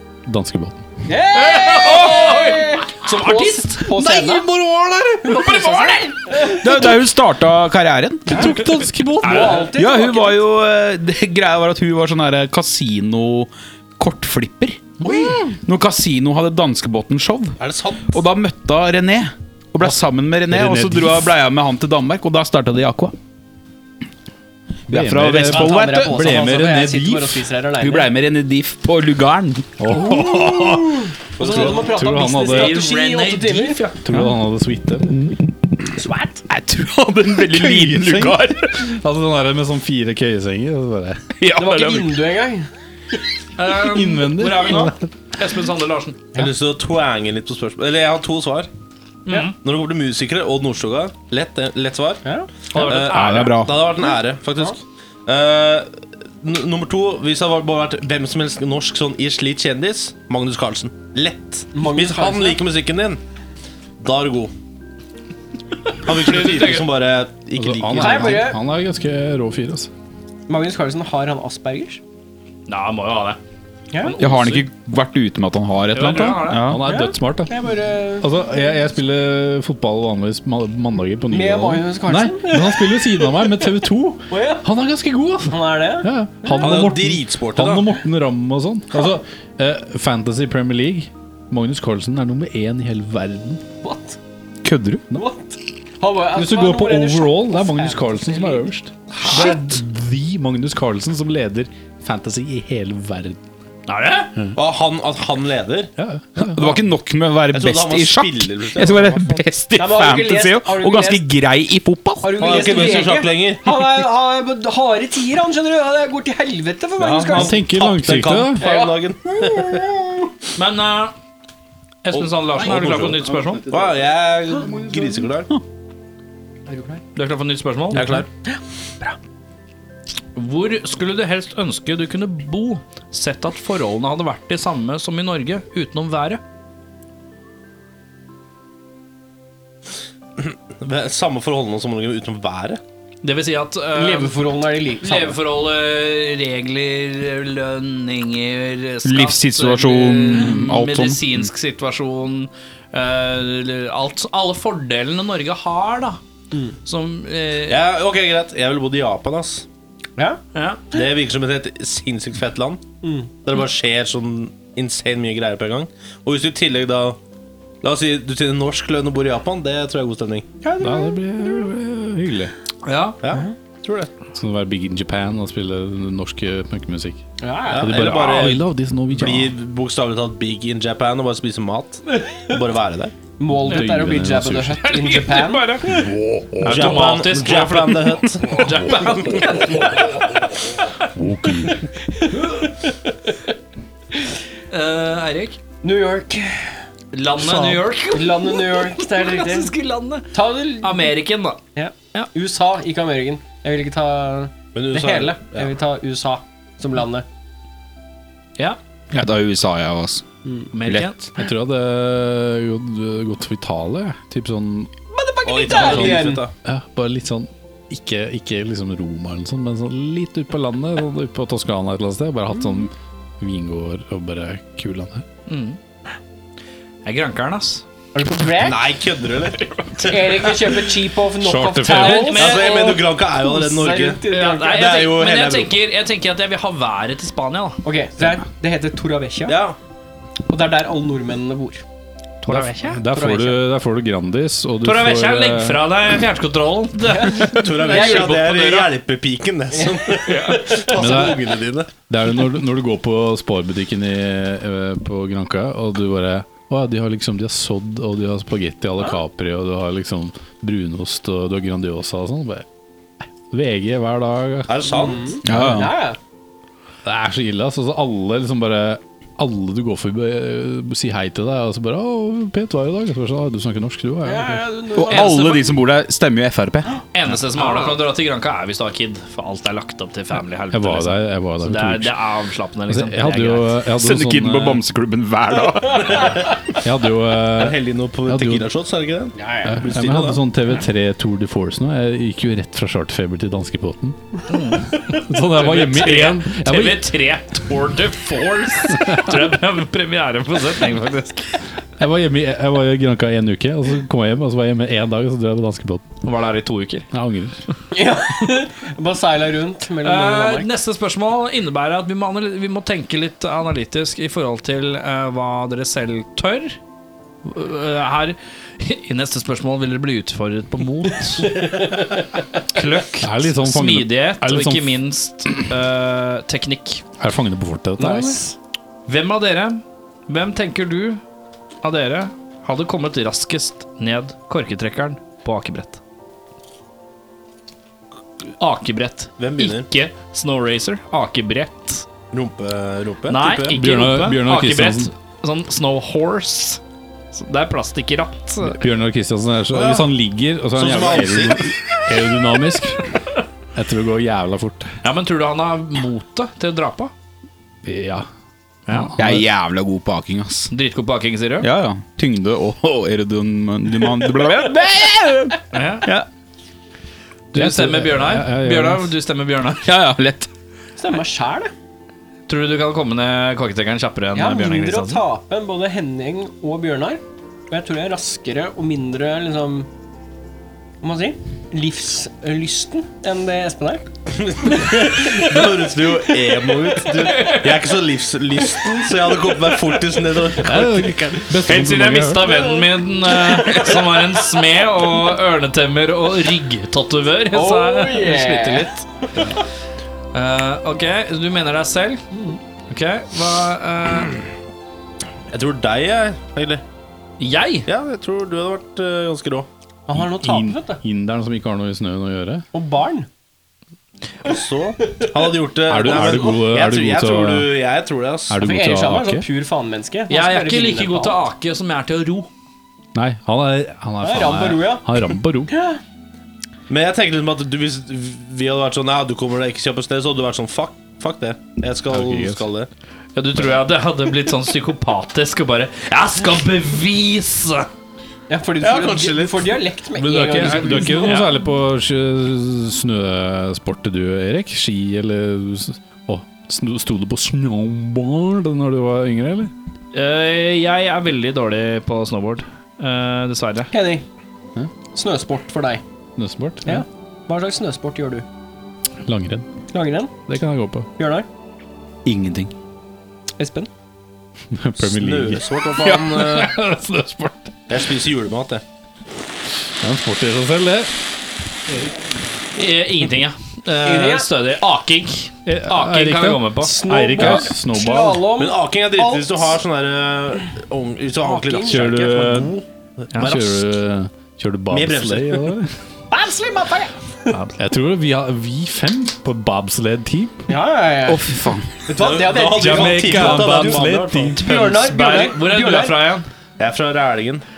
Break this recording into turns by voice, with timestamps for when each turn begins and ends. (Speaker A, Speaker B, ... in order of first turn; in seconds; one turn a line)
Speaker A: 0.2-0.8
Speaker B: 1.1-4.5
Speaker C: 1.3-4.4
Speaker A: 4.2-5.3
Speaker C: 5.2-6.4
Speaker B: 5.2-6.9
Speaker D: 6.3-8.5
Speaker B: 8.3-8.6
Speaker A: 8.3-9.7
Speaker B: 9.2-10.4
Speaker C: 9.2-9.7
Speaker D: 9.7-23.1
Speaker A: 15.0-15.4
Speaker E: 17.6-18.1
Speaker A: 20.5-21.3
Speaker A: 24.9-27.3
Speaker D: 24.9-26.9
Speaker B: 25.4-28.1
Speaker D: 27.8-30.4
Speaker A: 29.8-31.0
Speaker B: 29.9-33.9
Speaker E: 31.4-32.0
Speaker C: 31.4-34.2
Speaker A: 31.8-32.8
Speaker A: 34.0-35.4
Speaker B: 35.9-36.4
Speaker D: 36.5-38.9
Speaker A: 37.5-41.3
Speaker D: 41.4-42.2
Speaker B: 41.5-42.7
Speaker C: 43.6-46.3
Speaker A: 43.8-45.1
Speaker E: 46.3-48.7
Speaker C: 49.2-49.5
Speaker E: 49.6-63.2
Speaker B: 52.2-52.5
Speaker C: 52.7-53.6
Speaker D: 52.8-53.8
Speaker B: 61.7-62.6
Speaker E: 64.0-64.5
Speaker E: 66.0-68.5
Speaker C: 66.1-66.9
Speaker A: 67.5-69.9
Speaker B: 67.9-68.6
Speaker B: 70.5-72.0
Speaker C: 72.7-73.4
Speaker C: 74.0-74.7
Speaker D: 74.2-76.8
Speaker C: 75.9-76.7
Speaker A: 76.6-77.6
Speaker B: 76.8-78.4
Speaker A: 78.2-93.6
Speaker B: 81.3-84.7
Speaker B: 85.5-86.9
Speaker E: 86.6-88.0
Speaker B: 93.8-94.2
Speaker D: 94.6-95.0
Speaker B: 95.1-98.7
Speaker A: 96.3-103.4
Speaker B: 99.2-99.7
Speaker C: 103.9-104.3
Speaker E: 104.5-105.9
Speaker A: 106.0-106.8
Speaker D: 106.4-113.0
Speaker E: 107.5-109.4
Speaker B: 109.7-111.2
Speaker B: 112.2-117.7
Speaker E: 112.4-113.8
Speaker E: 117.0-120.0
Speaker A: 117.3-118.6
Speaker B: 118.5-120.0
Speaker C: 120.5-121.1
Speaker C: 122.0-123.7
Speaker E: 122.1-125.5
Speaker A: 122.8-124.1
Speaker A: 124.7-125.1
Speaker B: 126.7-127.0
Speaker C: 127.1-128.1
Speaker E: 127.9-128.3
Speaker B: 128.4-129.2
Speaker C: 130.3-136.4
Speaker E: 140.4-142.8
Speaker C: 143.2-144.4
Speaker B: 143.9-145.4
Speaker C: 145.0-156.2
Speaker D: 149.0-151.5
Speaker C: 156.8-157.8
Speaker E: 157.7-159.6
Speaker C: 160.5-160.8
Speaker E: 160.9-162.8
Speaker B: 163.0-163.3
Speaker E: 163.4-167.2
Speaker E: 167.8-170.5
Speaker B: 170.6-171.2
Speaker A: 170.8-172.5
Speaker C: 172.8-173.2
Speaker E: 173.2-174.1
Speaker A: 174.3-177.2
Speaker B: 177.4-178.1
Speaker E: 177.7-183.1
Speaker A: 177.8-179.5
Speaker B: 182.1-182.6
Speaker B: 183.4-185.9
Speaker A: 183.6-184.9
Speaker C: 184.8-185.9
Speaker A: 185.8-186.9
Speaker E: 186.6-189.2
Speaker C: 186.6-190.4
Speaker A: 191.1-191.9
Speaker B: 191.7-193.3
Speaker C: 194.7-195.6
Speaker B: 195.8-196.8
Speaker C: 197.1-201.6
Speaker B: 198.1-199.7
Speaker B: 200.3-201.1
Speaker B: 201.7-207.2
Speaker E: 204.7-205.7
Speaker D: 209.1-210.2
Speaker C: 210.7-211.3
Speaker D: 210.8-211.1
Speaker A: 211.3-214.9
Speaker B: 215.1-216.4
Speaker E: 215.4-216.5
Speaker A: 215.7-225.2
Speaker C: 225.5-225.8
Speaker C: 227.0-227.8
Speaker B: 228.1-228.8
Speaker E: 228.6-230.4
Speaker B: 230.0-234.9
Speaker A: 231.4-232.3
Speaker C: 231.8-233.0
Speaker E: 232.3-235.7
Speaker C: 234.3-237.8
Speaker B: 237.8-239.6
Speaker E: 239.5-239.8
Speaker B: 240.5-241.8
Speaker C: 242.4-243.0
Speaker A: 242.5-245.9
Speaker B: 243.1-243.6
Speaker C: 244.8-249.0
Speaker B: 247.0-248.4
Speaker E: 247.4-251.9
Speaker B: 249.7-251.3
Speaker C: 250.2-250.9
Speaker A: 250.9-251.4
Speaker A: 252.0-262.6
Speaker A: 263.5-264.8
Speaker E: 264.7-265.4
Speaker B: 264.9-266.2
Speaker D: 265.4-265.9
Speaker A: 265.5-265.9
Speaker A: 267.0-274.6
Speaker B: 274.2-275.5
Speaker D: 274.9-276.9
Speaker C: 275.0-275.7
Speaker C: 277.1-283.8
Speaker B: 277.6-278.0
Speaker A: 280.7-282.2
Speaker A: 282.9-284.8
Speaker D: 283.9-286.4
Speaker A: 286.8-288.7
Speaker E: 287.5-290.4
Speaker B: 289.4-289.8
Speaker A: 289.6-294.2
Speaker C: 294.5-301.6
Speaker A: 295.0-297.1
Speaker A: 298.9-299.4
Speaker A: 302.0-306.0
Speaker C: 306.2-307.1
Speaker A: 307.1-307.6
Speaker B: 307.9-310.7
Speaker C: 310.0-316.8
Speaker C: 317.4-321.8
Speaker B: 321.4-322.0
Speaker C: 322.7-327.0
Speaker A: 323.2-325.0
Speaker A: 327.2-328.4
Speaker B: 328.0-328.6
Speaker C: 329.1-331.2
Speaker C: 331.8-336.0
Speaker C: 338.6-342.1
Speaker E: 339.4-339.9
Speaker E: 342.3-343.8
Speaker C: 343.3-346.8
Speaker A: 343.7-345.1
Speaker C: 347.3-348.8
Speaker A: 348.6-353.1
Speaker E: 349.7-350.1
Speaker E: 350.7-351.7
Speaker A: 353.7-354.9
Speaker C: 355.0-357.1
Speaker A: 357.8-358.2
Speaker C: 358.9-359.1
Speaker A: 358.9-359.4
Speaker D: 359.2-360.7
Speaker C: 360.7-361.7
Speaker D: 361.6-366.3
Speaker C: 365.7-366.1
Speaker C: 367.5-369.9
Speaker A: 367.5-369.1
Speaker D: 369.8-370.5
Speaker B: 371.0-371.7
Speaker C: 372.5-375.2
Speaker B: 374.3-379.9
Speaker B: 381.0-384.0
Speaker E: 384.4-391.4
Speaker C: 387.1-387.9
Speaker A: 390.6-392.6
Speaker C: 391.6-399.4
Speaker B: 392.4-394.4
Speaker B: 397.5-399.4
Speaker C: 400.3-402.2
Speaker B: 402.3-402.6
Speaker C: 402.9-404.4
Speaker E: 405.5-406.8
Speaker C: 407.4-407.9
Speaker E: 407.9-409.7
Speaker B: 410.1-411.0
Speaker A: 410.1-412.6
Speaker B: 412.7-413.3
Speaker E: 414.4-418.6
Speaker A: 415.9-417.7
Speaker A: 418.5-419.4
Speaker B: 418.6-421.4
Speaker C: 420.3-422.5
Speaker A: 423.1-425.7
Speaker B: 424.2-425.1
Speaker B: 425.7-426.0
Speaker E: 426.9-432.9
Speaker A: 432.1-432.6
Speaker C: 433.3-437.9
Speaker B: 438.5-441.4
Speaker E: 438.8-440.9
Speaker A: 440.2-449.7
Speaker C: 440.7-441.5
Speaker C: 450.1-453.9
Speaker B: 453.9-454.2
Speaker B: 455.1-456.0
Speaker A: 456.4-457.0
Speaker B: 456.8-458.4
Speaker A: 459.2-459.7
Speaker B: 459.9-460.3
Speaker A: 460.4-461.1
Speaker B: 461.2-461.4
Speaker D: 462.2-462.7
Speaker B: 463.6-463.9
Speaker A: 464.7-467.8
Speaker E: 465.0-466.8
Speaker E: 467.9-468.8
Speaker A: 470.0-471.1
Speaker C: 472.7-477.6
Speaker B: 474.0-474.5
Speaker A: 475.6-478.5
Speaker B: 476.8-479.8
Speaker E: 478.6-483.8
Speaker B: 481.4-482.5
Speaker A: 481.9-482.7
Speaker A: 483.4-486.0
Speaker E: 484.9-485.8
Speaker B: 486.3-487.6
Speaker C: 487.5-487.8
Speaker A: 487.8-490.6
Speaker B: 490.7-491.5
Speaker D: 491.3-491.9
Speaker B: 492.1-496.2
Speaker E: 492.1-494.6
Speaker A: 492.7-494.6
Speaker C: 494.6-496.5
Speaker E: 496.8-497.6